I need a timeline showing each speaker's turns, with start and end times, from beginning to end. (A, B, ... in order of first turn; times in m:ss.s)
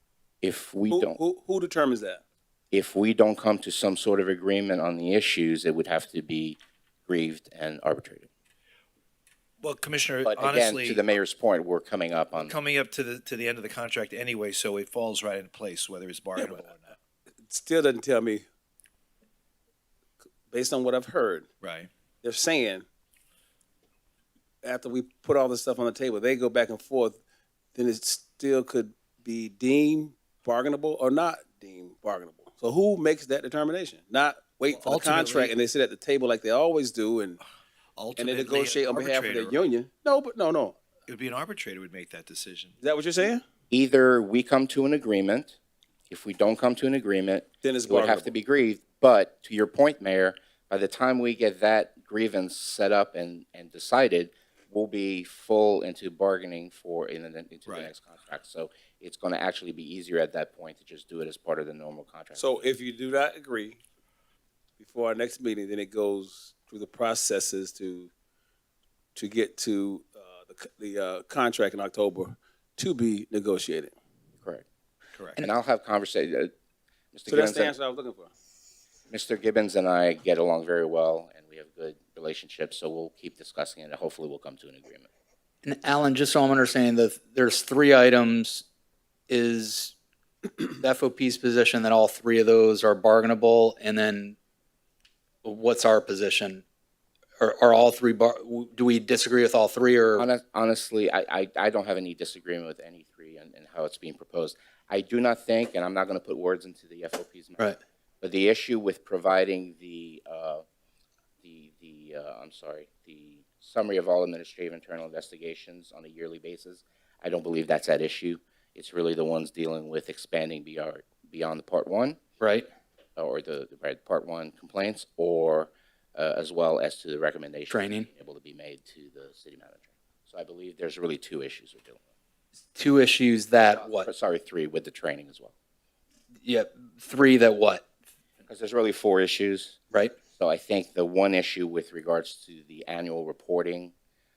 0:00.4-0:01.2 A
0:00.9-0:02.2 B
0:02.7-0:08.3 A
0:09.6-0:11.0 C
0:10.2-0:12.5 A
0:12.4-0:17.0 C
0:16.4-0:16.6 B
0:17.5-0:18.4 B
0:20.5-0:21.5 B
0:21.6-0:21.9 C
0:22.2-0:22.8 B
0:24.6-0:27.2 B
0:27.8-0:37.4 B
0:34.8-0:35.5 C
0:38.0-0:39.7 C
0:38.2-0:40.8 B
0:41.1-0:42.8 C
0:42.8-0:43.4 B
0:43.7-0:45.6 A
0:46.1-1:02.7 A
0:47.6-0:48.3 B
0:57.7-0:57.9 C
1:02.4-1:03.8 B
1:04.8-1:08.1 B
1:09.2-1:13.9 B
1:15.2-1:15.5 C
1:15.4-1:16.5 A
1:17.1-1:17.7 A
1:17.3-1:18.3 B
1:19.1-1:25.1 A
1:25.6-1:28.7 D
1:29.3-1:30.0 D
1:30.8-1:34.4 D
1:35.4-1:36.6 D
1:37.4-1:40.3 D
1:40.2-1:47.6 A
1:48.2-1:50.6 A
1:51.4-2:02.2 A
2:02.4-2:02.7 D
2:03.2-2:12.0 A
2:07.7-2:08.1 D
2:12.7-2:14.1 D
2:13.9-2:15.5 A
2:16.4-2:17.8 D
2:18.4-2:19.8 A
2:20.4-2:23.9 A